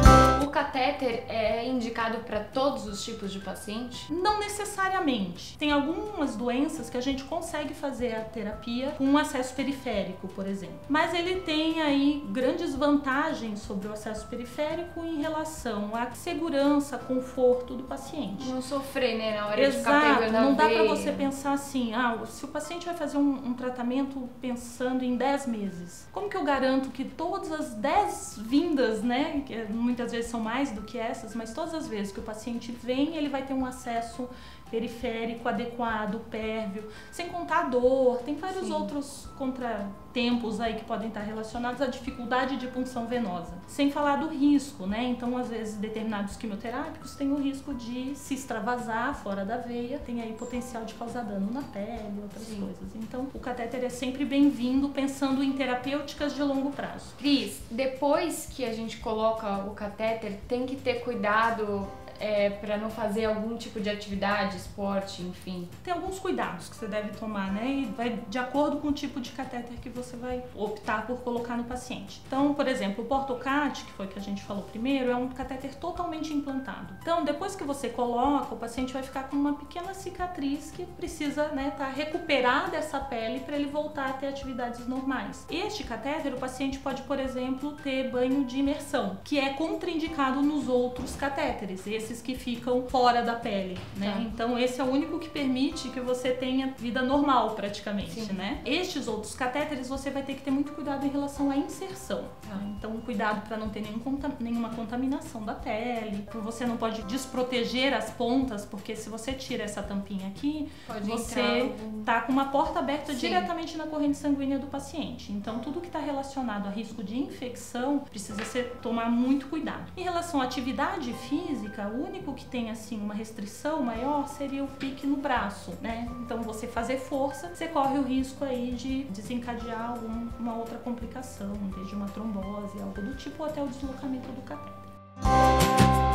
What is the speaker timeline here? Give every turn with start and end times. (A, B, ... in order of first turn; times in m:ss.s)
0:00.3-0:04.1 A
0:04.1-0:18.6 B
0:18.4-0:21.3 A
0:19.5-0:57.2 B
0:38.5-0:38.9 A
0:52.4-0:52.7 A
0:57.2-1:05.7 A
1:05.8-2:14.9 B
1:34.0-1:34.2 A
1:38.1-1:38.4 A
1:50.8-1:52.1 A
1:53.1-1:53.5 A